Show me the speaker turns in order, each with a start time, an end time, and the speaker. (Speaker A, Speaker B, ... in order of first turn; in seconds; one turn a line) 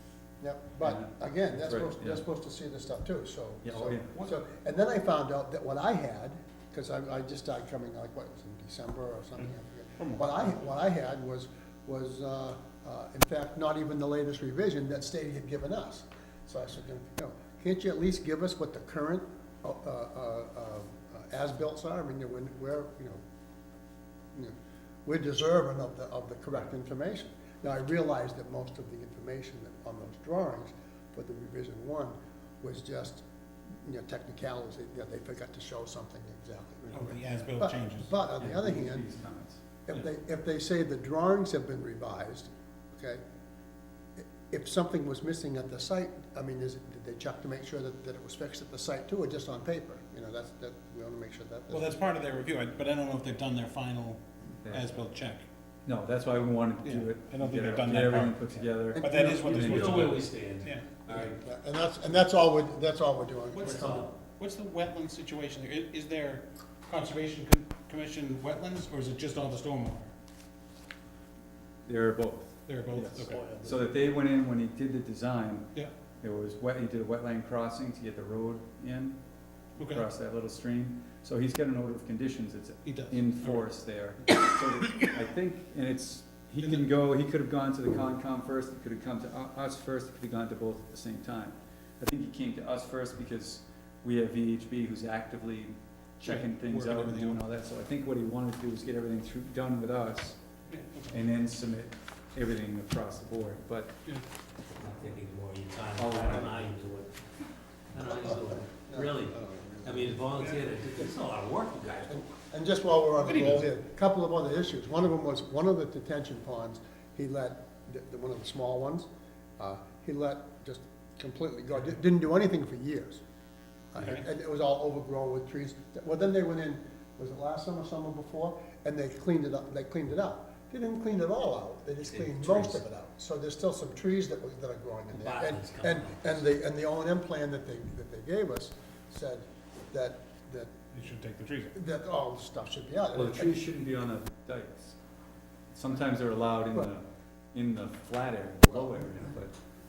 Speaker A: 0.4-23.2
Speaker B: 0.8-2.2
Speaker B: 3.6-4.1
Speaker A: 24.3-33.2
Speaker A: 33.8-39.0
Speaker C: 36.9-38.1
Speaker B: 38.4-39.6
Speaker A: 39.9-43.2
Speaker A: 44.2-52.0
Speaker C: 51.7-55.4
Speaker B: 55.9-60.1
Speaker C: 56.8-60.8
Speaker A: 58.9-59.9
Speaker D: 59.5-61.4
Speaker A: 61.1-64.1
Speaker D: 63.6-64.1
Speaker C: 64.3-70.1
Speaker B: 71.8-75.7
Speaker C: 72.7-73.4
Speaker A: 73.3-73.9
Speaker B: 76.2-79.2
Speaker C: 79.8-80.0
Speaker B: 79.8-100.4
Speaker C: 82.8-83.6
Speaker C: 86.6-86.9
Speaker C: 96.2-97.4
Speaker C: 100.7-101.2
Speaker B: 101.1-103.9
Speaker D: 104.8-107.2
Speaker B: 106.0-106.7
Speaker D: 107.9-112.2
Speaker A: 108.0-110.5
Speaker A: 112.1-119.1
Speaker C: 113.2-113.6
Speaker A: 119.6-123.2
Speaker A: 123.9-140.7
Speaker C: 124.0-124.2
Speaker D: 132.0-132.8
Speaker D: 135.1-136.4
Speaker C: 140.9-141.7
Speaker A: 141.7-143.7
Speaker B: 143.1-145.0
Speaker B: 145.7-149.5
Speaker A: 148.6-149.3